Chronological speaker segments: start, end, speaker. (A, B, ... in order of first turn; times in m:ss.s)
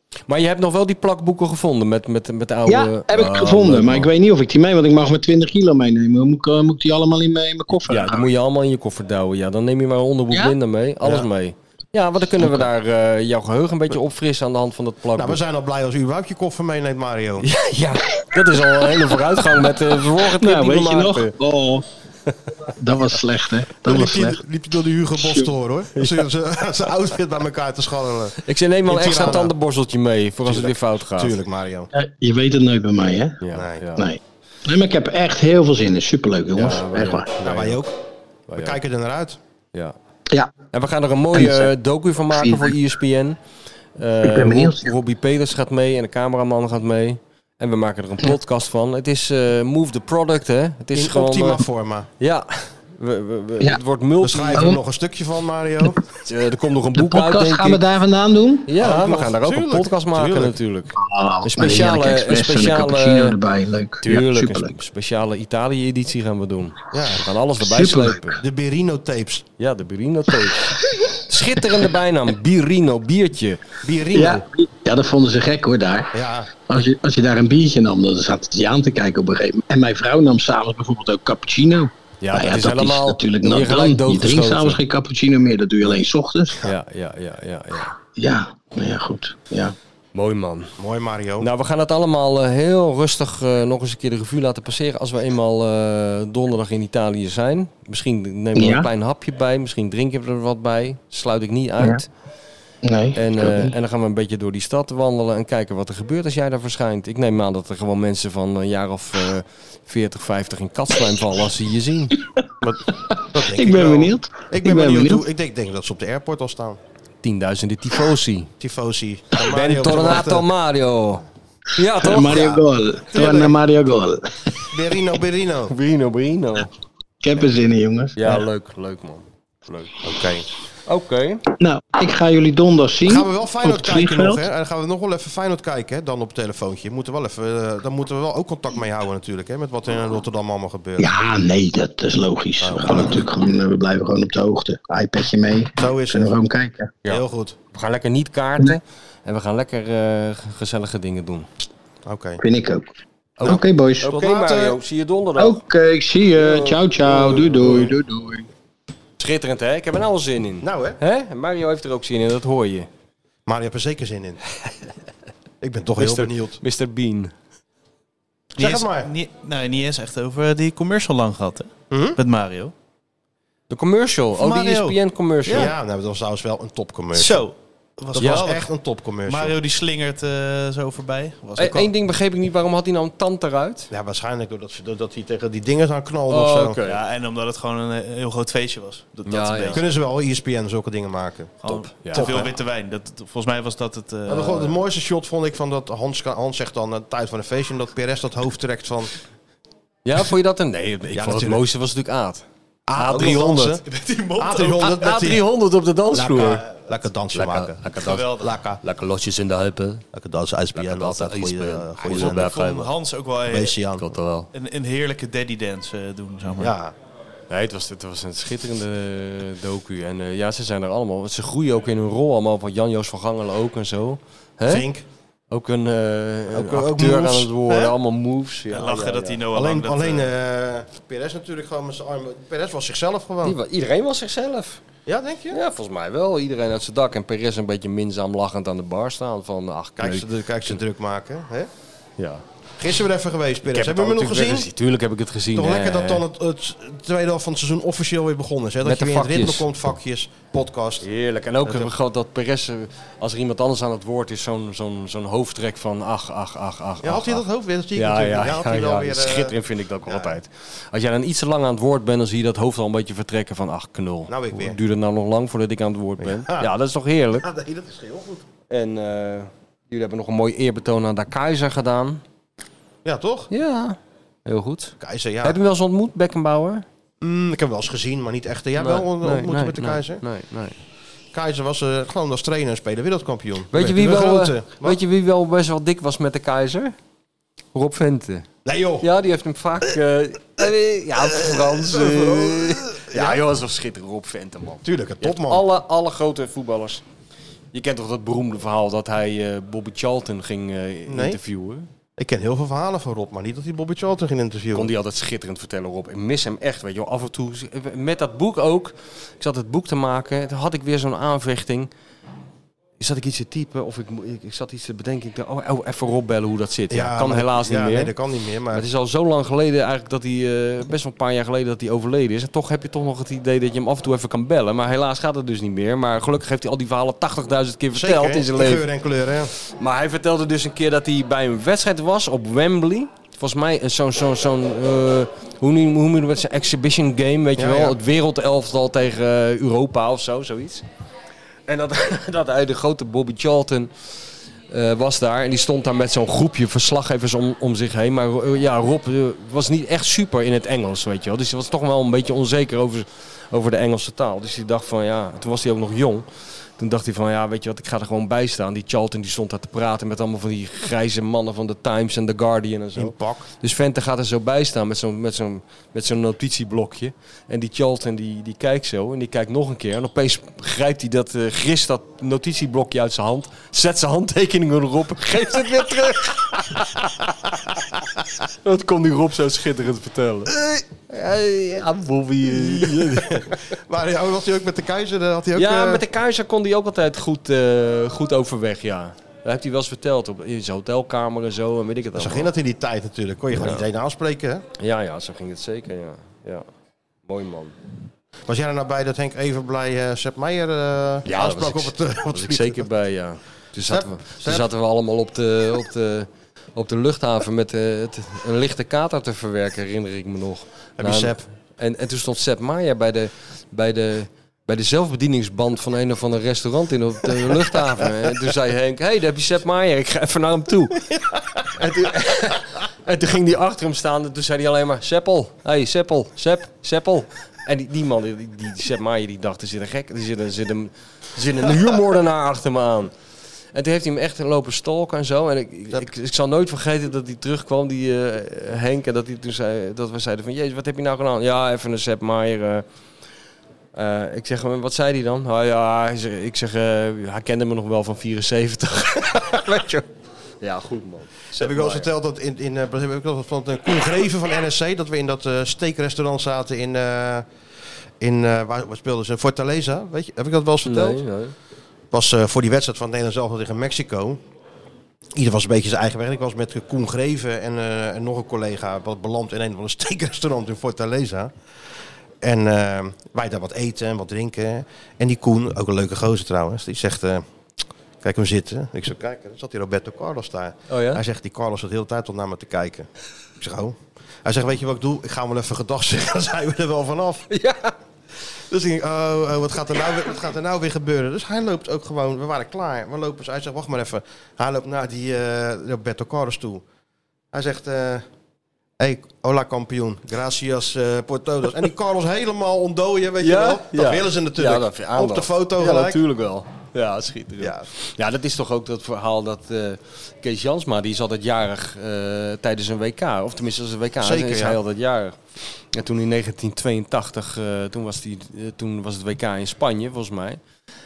0:00.3-0:04.1 A
0:02.7-0:08.3 B
0:07.9-0:15.4 A
0:10.3-0:10.6 B
0:12.4-0:12.7 B
0:15.2-0:17.5 C
0:17.4-0:21.4 A
0:18.2-0:21.8 B
0:22.8-0:24.4 B
0:23.8-0:29.5 C
0:25.2-0:25.5 B
0:28.4-0:31.4 A
0:30.5-0:31.9 C
0:31.9-0:33.4 B
0:33.4-0:34.1 A
0:33.5-0:33.9 C
0:34.0-0:37.3 B
0:36.6-0:37.8 A
0:37.4-0:38.0 C
0:38.5-0:38.8 A
0:38.6-0:39.4 C
0:40.7-0:43.4 A
0:41.3-0:41.7 B
0:42.3-0:42.8 B
0:44.0-0:51.6 A
0:44.2-0:45.0 B
0:50.9-0:52.1 C
0:52.2-0:54.8 A
0:54.2-0:56.0 C
0:54.5-0:54.8 B
0:56.2-0:57.8 A
0:57.0-0:58.7 B
0:58.7-1:03.4 A
0:58.8-1:00.6 C
1:01.0-1:04.8 B
1:04.0-1:08.4 A
1:06.9-1:07.3 C
1:07.6-1:08.2 B
1:08.2-1:09.4 C
1:09.6-1:10.8 A
1:11.3-1:13.6 A
1:13.8-1:14.5 C
1:14.1-1:26.6 B
1:16.1-1:16.5 C
1:22.2-1:24.8 A
1:26.6-1:28.0 A
1:28.2-1:29.8 B
1:30.2-1:30.7 A
1:30.8-1:31.5 C
1:31.4-1:42.1 A
1:38.6-1:38.9 B
1:42.8-1:43.7 B
1:43.2-1:52.2 A
1:52.6-1:56.8 C
1:53.1-1:55.3 B
1:57.2-1:58.5 A
1:58.6-2:00.5 C
1:59.4-2:01.2 A
2:01.8-2:02.5 A
2:02.0-2:04.3 B
2:02.2-2:03.6 C
2:04.7-2:05.7 C
2:05.7-2:06.7 A
2:07.2-2:08.5 B
2:08.2-2:09.9 A
2:10.0-2:10.5 C
2:10.9-2:11.4 A
2:11.6-2:14.4 B
2:13.0-2:21.1 C
2:21.0-2:27.0 B
2:22.6-2:23.2 C
2:25.8-2:26.4 C
2:27.0-2:31.5 A
2:27.1-2:27.6 C
2:32.0-2:32.4 C
2:32.4-2:32.9 B
2:33.4-2:35.6 A
2:33.4-2:34.1 B
2:33.4-2:34.8 C
2:35.4-2:38.5 B
2:36.4-2:37.9 A
2:37.1-2:37.9 C
2:39.2-2:42.9 A
2:40.6-2:41.0 C
2:43.5-2:44.4 C
2:45.6-2:46.6 C
2:46.0-2:47.3 A
2:48.6-2:52.7 D
2:48.6-2:49.1 C
2:51.9-2:52.2 C
2:53.7-2:55.7 A
2:54.4-2:55.7 D
2:55.5-2:57.5 C
2:57.2-2:58.7 D
2:58.1-2:59.6 C
2:58.2-2:58.5 A
2:59.3-3:01.9 D
3:01.6-3:03.9 A
3:03.9-3:06.8 C
3:06.3-3:07.0 A
3:06.8-3:09.8 D
3:09.3-3:09.8 A
3:09.7-3:12.6 C
3:11.6-3:14.8 D
3:11.6-3:12.3 A
3:14.3-3:19.1 C
3:20.0-3:22.4 A
3:21.2-3:21.6 C
3:22.9-3:23.8 C
3:23.0-3:23.8 A
3:23.9-3:25.0 D
3:24.4-3:25.4 C
3:24.8-3:26.6 A
3:26.1-3:28.8 C
3:27.3-3:30.0 A
3:28.0-3:28.4 D
3:30.1-3:32.6 C
3:30.8-3:32.9 A
3:32.1-3:33.8 D
3:33.5-3:34.2 C
3:34.0-3:34.5 A
3:34.5-3:36.7 D
3:36.6-3:36.9 C
3:37.5-3:44.9 A
3:44.7-3:45.0 C
3:45.5-3:49.4 A
3:46.5-3:48.0 C
3:48.7-3:50.3 D
3:49.5-3:53.6 C
3:53.4-3:54.8 A
3:55.1-3:55.6 C
3:55.5-4:00.8 A
4:00.0-4:01.7 C
4:02.2-4:02.4 A
4:02.8-4:04.7 C
4:03.6-4:06.2 A
4:05.5-4:11.1 C
4:08.8-4:09.7 A
4:11.0-4:17.4 A
4:11.6-4:11.9 C
4:17.0-4:20.4 C
4:18.0-4:27.5 A
4:24.3-4:24.8 C
4:26.2-4:26.7 C
4:27.4-4:28.4 C
4:28.7-4:32.2 A
4:33.0-4:33.5 C
4:33.5-4:36.8 A
4:35.0-4:35.6 C
4:37.2-4:40.2 C
4:38.8-4:40.8 A
4:41.3-4:45.0 C
4:43.7-4:47.0 A
4:47.7-4:48.5 A
4:48.6-4:49.1 C
4:49.0-4:57.0 A
4:51.3-4:53.4 C
4:54.8-4:55.6 C
4:57.7-5:01.9 A
5:01.1-5:01.4 C
5:02.2-5:04.9 C
5:04.7-5:11.9 A
5:13.0-5:18.1 A
5:16.9-5:18.9 C
5:18.7-5:28.8 A
5:27.9-5:29.5 C
5:29.8-5:40.8 A
5:37.6-5:38.0 C
5:41.7-5:43.9 A
5:44.7-5:56.3 A
5:56.8-6:17.8 A
6:03.0-6:03.5 C
6:18.6-6:20.5 A
6:20.5-6:20.8 C
6:21.1-6:23.6 A
6:22.5-6:26.0 C
6:25.6-6:32.5 A
6:32.2-6:34.6 C
6:33.6-6:33.8 A
6:34.8-6:36.6 A
6:37.3-6:37.8 A
6:38.5-6:42.9 C
6:41.2-7:01.0 A
6:43.9-6:44.7 C
6:51.0-6:51.4 C
7:01.7-7:13.1 A
7:13.7-7:22.8 A
7:24.0-7:30.1 A
7:30.6-7:32.1 A
7:31.6-7:37.5 C
7:38.2-7:41.2 C
7:40.8-7:41.5 A
7:42.1-7:44.4 C
7:45.3-7:51.5 C
7:52.4-7:57.4 C
7:58.2-8:07.5 C
8:00.9-8:01.2 A
8:07.5-8:07.9 A
8:08.7-8:16.8 C
8:17.5-8:18.2 C
8:19.0-8:26.2 C
8:23.4-8:40.6 A
8:27.6-8:27.9 C
8:34.2-8:34.8 C